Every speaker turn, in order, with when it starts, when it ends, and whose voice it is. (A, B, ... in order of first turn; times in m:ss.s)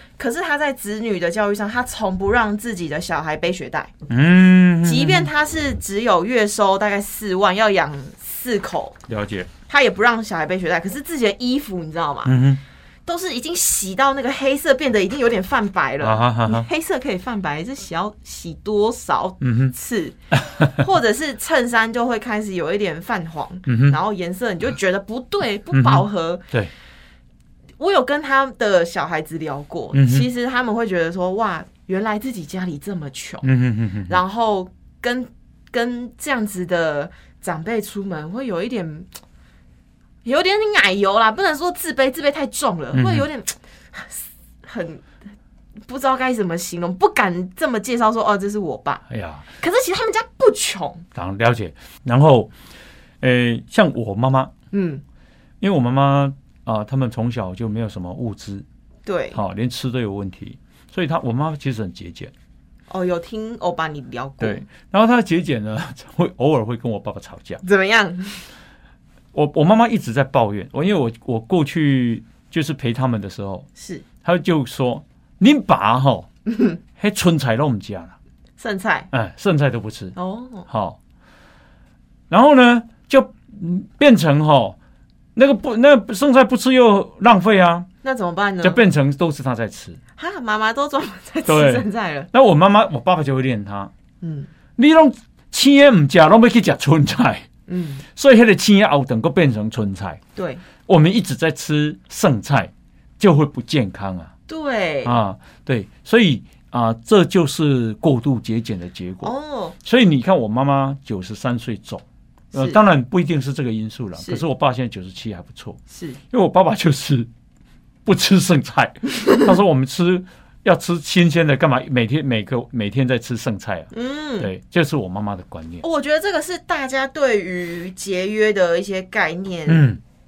0:00.2-0:03.9 A
0:04.1-0:05.3 B
0:04.8-0:09.0 A
0:09.1-0:09.5 B
0:09.7-0:12.3 A
0:12.2-0:12.6 B
0:13.0-0:26.4 A
0:16.0-0:16.6 B
0:19.4-0:19.7 B
0:20.4-0:20.7 B
0:23.7-0:24.0 B
0:25.7-0:26.7 B
0:27.8-0:33.5 A
0:29.9-0:30.3 B
0:33.4-0:34.2 B
0:34.1-0:39.1 A
0:40.2-0:45.0 A
0:42.9-0:43.3 B
0:45.8-0:49.0 A
0:49.1-0:49.4 B
0:49.6-0:51.0 A
0:51.1-0:52.5 B
0:53.2-0:54.5 B
0:54.7-0:55.0 A
0:55.6-0:58.6 B
0:59.0-0:59.4 A
0:59.3-1:02.3 B
1:02.9-1:04.6 A
1:04.4-1:07.6 B
1:07.6-1:08.4 A
1:09.3-1:13.7 B
1:13.8-1:14.0 A
1:14.2-1:16.3 B
1:16.5-1:16.8 A
1:17.0-1:18.1 B
1:18.6-1:19.1 A
1:19.1-1:20.1 B
1:20.2-1:20.7 A
1:20.7-1:21.0 B
1:22.3-1:24.8 B
1:25.3-1:27.9 B
1:28.0-1:28.8 A
1:28.6-1:30.0 B
1:30.2-1:32.3 A
1:31.5-1:33.9 B
1:34.2-1:34.5 A
1:34.8-1:37.4 B
1:37.7-1:38.0 A
1:38.1-1:40.2 B
1:40.4-1:40.6 A
1:40.8-1:44.3 B
1:44.5-1:45.1 A
1:45.0-1:49.3 B
1:49.2-1:49.8 A
1:49.8-1:55.8 B
1:52.5-1:52.8 A
1:54.2-1:54.4 A
1:55.9-1:56.2 A
1:56.3-1:57.3 B
1:58.0-2:05.8 B
2:03.9-2:04.5 A
2:05.8-2:09.9 A
2:09.7-2:10.0 B